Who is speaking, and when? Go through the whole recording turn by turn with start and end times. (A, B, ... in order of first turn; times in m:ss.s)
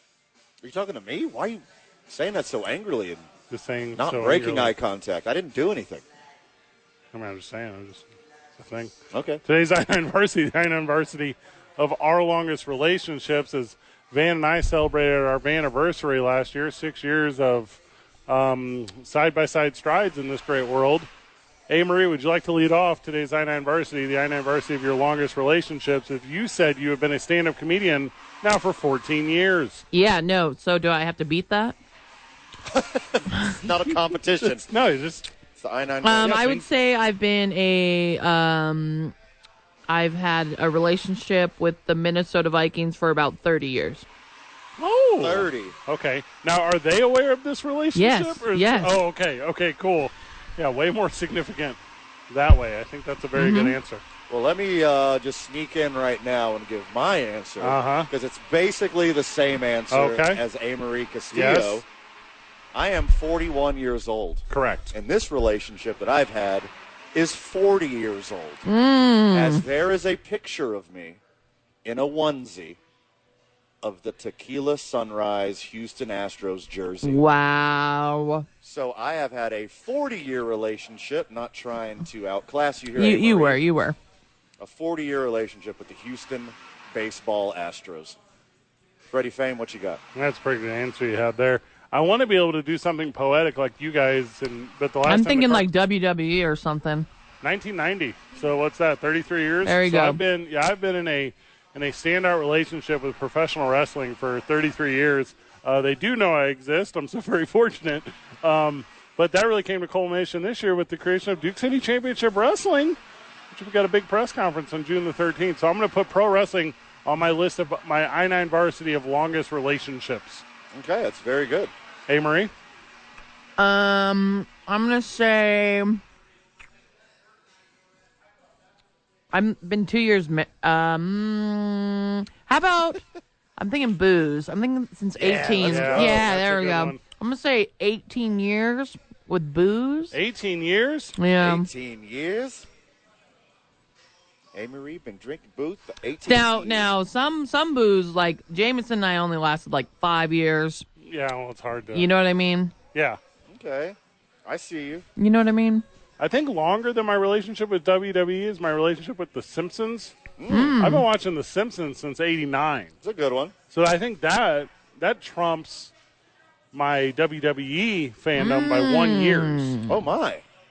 0:00.6-0:03.2 A
0:03.5-0:04.7 B
0:04.0-0:06.0 A
0:07.1-0:08.1 B
0:08.6-0:21.1 B
0:09.1-0:09.4 A
0:21.7-0:29.8 B
0:29.9-0:31.8 C
0:32.7-0:34.7 A
0:34.4-0:35.3 B
0:35.6-0:36.4 A
0:36.0-0:39.1 C
0:36.2-0:36.6 B
0:39.9-0:44.0 C
0:44.8-0:54.0 B
0:45.2-0:45.8 A
0:47.9-0:49.0 C
0:53.4-0:53.8 C
0:54.3-1:01.8 A
0:57.6-0:58.1 B
0:59.9-1:00.4 B
1:01.3-1:01.8 B
1:02.7-1:08.6 A
1:04.5-1:04.9 B
1:08.6-1:09.6 C
1:09.3-1:11.2 A
1:11.8-1:12.8 A
1:13.8-1:17.2 A
1:17.0-1:18.5 C
1:18.6-1:23.6 A
1:22.9-1:24.0 C
1:24.6-1:28.2 A
1:29.1-1:30.0 A
1:30.1-1:35.7 B
1:35.0-1:37.1 C
1:37.4-1:53.0 B
1:39.6-1:40.2 C
1:53.5-2:00.4 B
2:00.7-2:01.7 A
2:02.1-2:02.5 B
2:03.6-2:06.0 C
2:09.3-2:13.0 C
2:13.6-2:20.1 C
2:15.2-2:16.3 A
2:15.2-2:17.0 B
2:20.1-2:21.2 B
2:21.2-2:21.7 C
2:21.4-2:22.7 A
2:24.5-2:26.9 A
2:26.2-2:30.8 C
2:31.0-2:32.1 B
2:31.9-2:32.7 C
2:32.9-2:33.2 B
2:33.5-2:35.0 A
2:35.2-2:35.8 C
2:36.2-2:40.1 B
2:40.4-2:40.8 A
2:40.5-2:41.0 C
2:40.8-2:42.9 B
2:43.0-2:43.5 A
2:43.7-2:45.9 B
2:46.7-2:49.8 B
2:48.4-2:50.0 C
2:49.9-2:50.4 A